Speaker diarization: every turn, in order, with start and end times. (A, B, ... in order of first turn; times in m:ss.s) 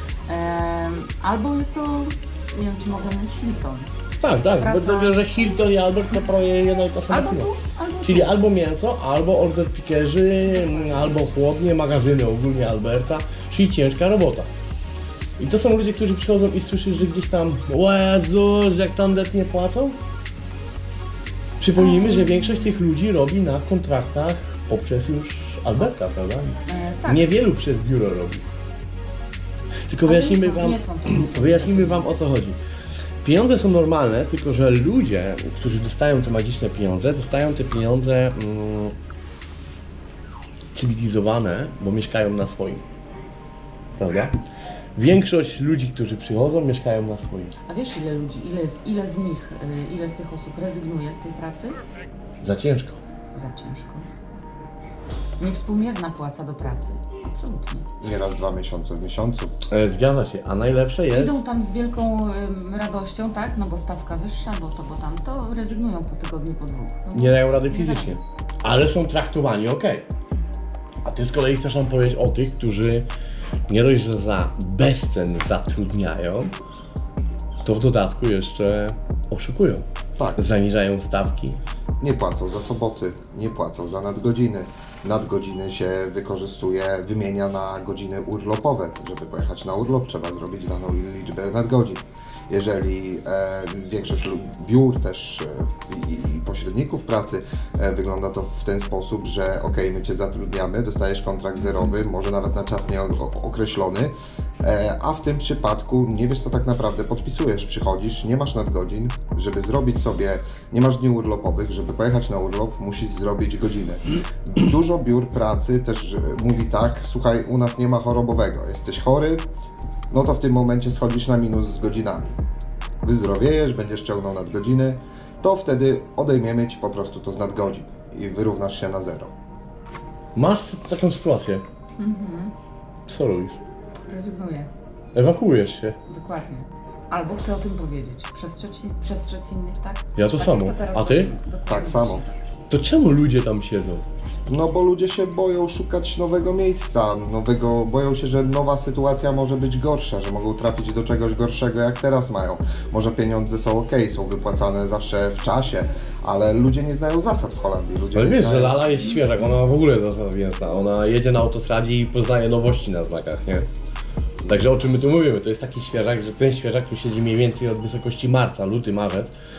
0:00.3-0:03.9 A
0:04.1-0:07.5 B
0:04.6-0:05.2 A
0:07.1-0:08.2 A
0:08.0-0:14.5 B
0:15.4-0:20.0 B
0:21.6-0:28.4 B
0:26.7-0:27.3 A
0:29.9-0:32.6 B
0:30.0-0:32.1 A
0:33.2-0:38.9 B
0:40.7-0:42.8 B
0:44.0-0:44.4 B
0:45.0-0:47.5 B
0:47.7-0:51.8 A
0:52.4-0:53.0 B
0:53.4-0:54.0 A
0:55.4-0:57.9 A
0:58.0-0:59.5 C
0:59.7-1:01.4 B
1:01.2-1:08.2 A
1:07.1-1:10.0 B
1:11.0-1:13.1 B
1:13.7-1:16.5 B
1:17.6-1:21.6 B
1:20.2-1:20.4 C
1:22.0-1:59.4 C
2:00.1-2:02.3 C
2:03.0-2:09.3 C
2:10.3-2:11.6 B
2:12.0-2:12.5 A
2:13.1-2:13.6 B
2:14.1-2:14.7 A
2:15.1-2:16.0 B
2:16.1-2:22.2 A
2:20.1-2:21.3 B
2:21.7-2:22.2 C
2:22.7-2:24.0 B
2:24.5-2:38.8 C
2:38.1-2:43.7 B
2:44.4-2:49.3 B